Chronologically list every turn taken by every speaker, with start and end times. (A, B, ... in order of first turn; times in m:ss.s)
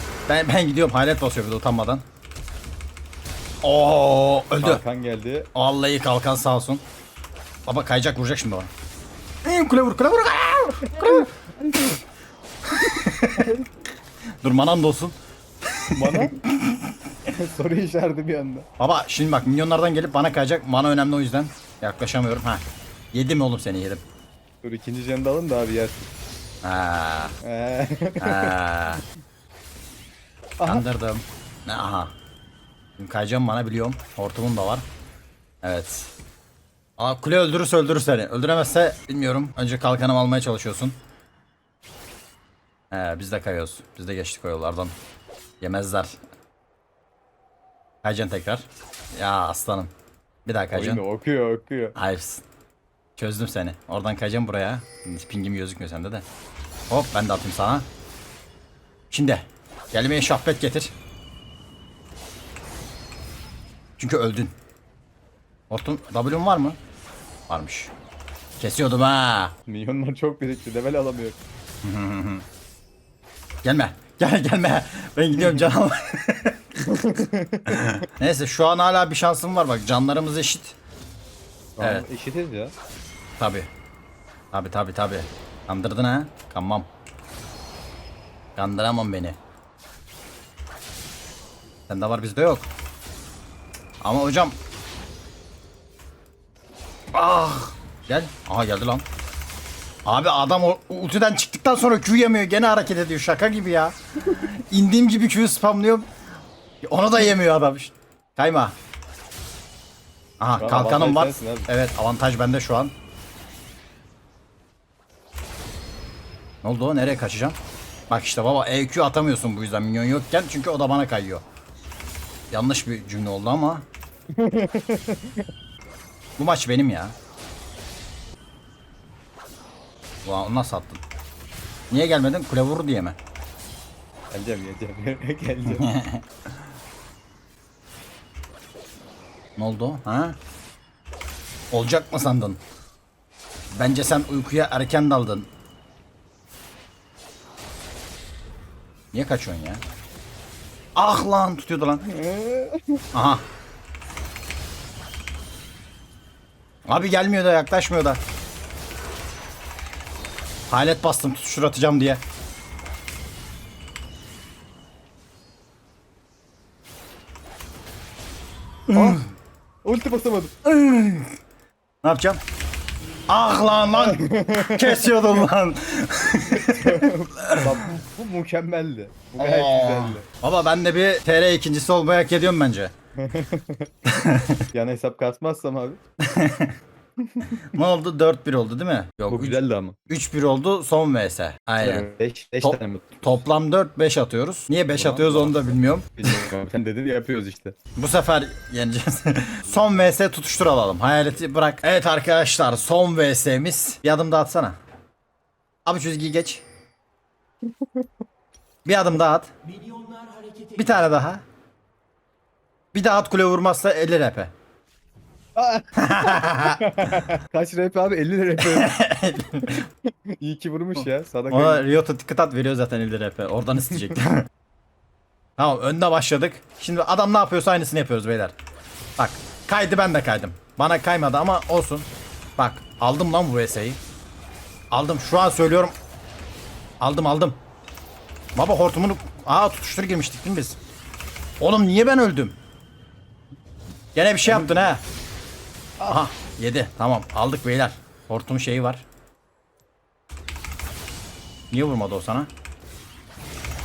0:00.3-0:02.0 A
0:03.6-0:04.8 A
0:04.6-0:05.5 B
0:05.6-0:06.8 A
0:07.7-0:08.7 A
0:09.4-0:11.3 A
0:10.9-0:11.9 B
0:12.7-0:13.5 A
0:13.4-0:13.7 B
0:14.4-0:15.2 A
0:15.9-0:16.9 A
0:16.0-0:16.4 B
0:17.3-0:18.7 B
0:18.8-0:24.0 A
0:24.6-0:26.1 B
0:26.6-0:27.3 A
0:27.4-0:28.6 B
0:28.2-0:29.0 A
0:30.6-0:30.8 B
0:30.7-0:32.1 A
0:33.0-0:34.9 A
0:35.6-0:36.1 A
0:37.0-0:41.0 A
0:42.9-0:45.0 A
0:45.6-0:46.2 A
0:48.0-0:49.9 A
0:50.5-0:51.0 A
0:50.7-0:52.0 B
0:52.0-0:52.4 A
0:53.2-0:56.2 A
0:56.9-0:57.9 A
0:59.1-1:00.9 A
1:04.0-1:04.5 A
1:05.7-1:06.8 A
1:07.5-1:07.9 A
1:08.6-1:09.6 A
1:09.7-1:11.4 B
1:11.8-1:12.4 A
1:13.6-1:16.6 A
1:16.8-1:18.0 B
1:17.7-1:20.8 A
1:21.8-1:22.7 B
1:21.8-1:22.0 A
1:23.4-1:23.7 A
1:24.5-1:26.9 A
1:28.6-1:29.4 A
1:31.9-1:32.7 A
1:34.0-1:34.6 A
1:37.1-1:39.0 A
1:40.1-1:46.1 A
1:46.8-1:48.7 A
1:50.4-1:52.9 A
1:50.6-1:51.7 B
1:56.6-1:57.6 A
1:58.1-2:01.4 A
2:02.5-2:03.8 A
2:04.4-2:05.5 B
2:06.4-2:07.1 A
2:10.3-2:11.0 A
2:11.9-2:13.2 A
2:14.3-2:15.9 B
2:15.8-2:16.2 A
2:19.6-2:20.4 A
2:21.7-2:22.6 A
2:23.7-2:25.5 A
2:29.1-2:29.8 A
2:31.0-2:32.0 A
2:32.0-2:33.0 B
2:33.1-2:33.4 A
2:36.9-2:38.2 A
2:40.7-2:42.2 A
2:48.9-2:49.2 A
2:48.9-2:49.2 B
2:49.8-2:50.5 B
2:50.6-2:51.4 A
2:52.0-2:52.4 A
2:53.3-2:57.8 A
2:53.9-2:55.3 B
2:56.5-3:00.3 B
2:59.4-3:02.9 A
3:03.2-3:03.9 B
3:04.1-3:04.6 A
3:04.7-3:06.0 B
3:06.2-3:06.7 A
3:07.2-3:07.5 B
3:07.6-3:09.6 A
3:09.3-3:10.0 B
3:10.1-3:12.1 A
3:11.8-3:13.2 B
3:12.6-3:16.4 A
3:14.9-3:17.8 B
3:18.0-3:24.8 A
3:25.9-3:26.6 A
3:27.7-3:28.1 B
3:28.8-3:29.5 A
3:30.6-3:31.4 A
3:32.9-3:34.5 A
3:35.6-3:39.0 B
3:36.0-3:36.8 A
3:38.6-3:39.8 A
3:40.1-3:41.8 B
3:41.5-3:44.5 A
3:45.6-3:48.5 A
3:49.2-3:54.0 A
3:54.9-3:55.9 A
3:57.0-3:57.6 A
3:58.6-4:00.8 A
4:01.6-4:02.6 A
4:04.2-4:05.0 A
4:06.0-4:09.0 A
4:11.7-4:12.5 A